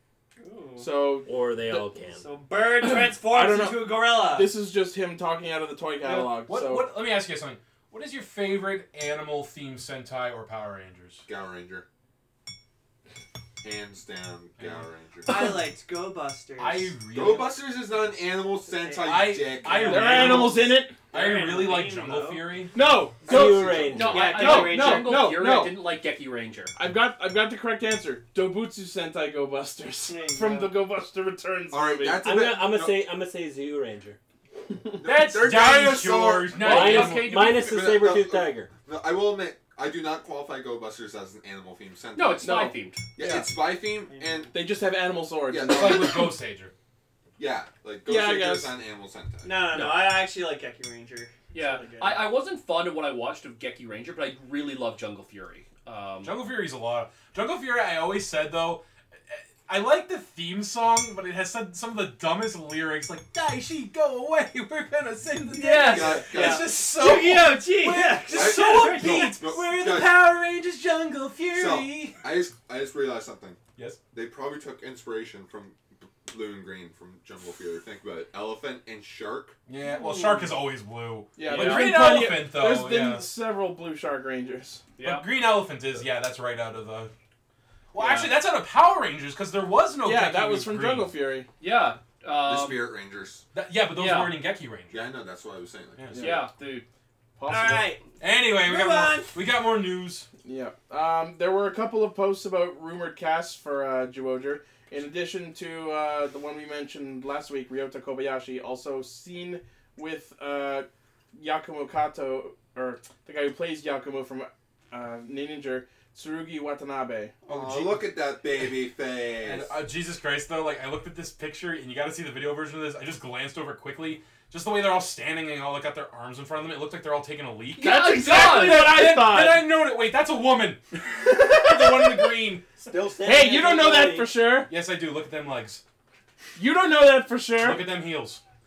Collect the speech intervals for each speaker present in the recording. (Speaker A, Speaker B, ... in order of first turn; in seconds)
Speaker A: 0.4-0.9, 2.1-4.5, 15.2-17.1, 18.7-20.4, 21.1-22.6, 24.0-25.3, 30.1-30.8, 44.0-44.5, 49.4-52.2, 65.5-69.5, 79.9-80.5, 97.5-99.4
Speaker B: 0.8-1.9, 2.9-6.9, 19.9-21.1, 22.7-25.8, 26.8-32.2, 42.4-43.5, 44.5-46.4, 48.0-48.7, 81.4-84.8, 90.0-91.5, 97.4-97.9, 100.4-117.3, 127.8-129.8, 131.2-132.5, 133.2-134.7, 136.5-137.8
Speaker C: 1.2-2.3, 23.2-24.4, 32.2-34.2, 36.6-38.7, 132.8-134.3
Speaker D: 6.1-11.2, 14.6-14.8, 16.6-17.5, 19.0-22.8, 35.0-37.4, 45.7-46.7, 56.2-72.2, 79.7-83.3, 85.0-87.1, 87.9-91.1, 93.5-95.0, 96.0-96.4, 98.2-100.3, 117.5-118.1, 119.4-132.7, 134.7-135.8, 137.5-138.4
Speaker E: 11.3-11.8, 13.6-15.6, 17.1-20.5, 31.7-33.0, 35.0-44.5, 45.5-46.3, 47.4-49.5, 65.8-66.8, 68.3-70.2, 71.5-73.6, 74.1-79.6, 92.4-93.5, 94.9-96.3, 117.5-119.8
Speaker F: 23.9-26.7, 36.6-37.6, 42.1-43.0, 49.7-50.1, 51.5-56.3, 65.5-66.5, 81.5-82.1, 85.0-85.3, 88.0-88.3, 91.6-92.9, 93.9-94.3, 96.2-96.8, 127.8-129.0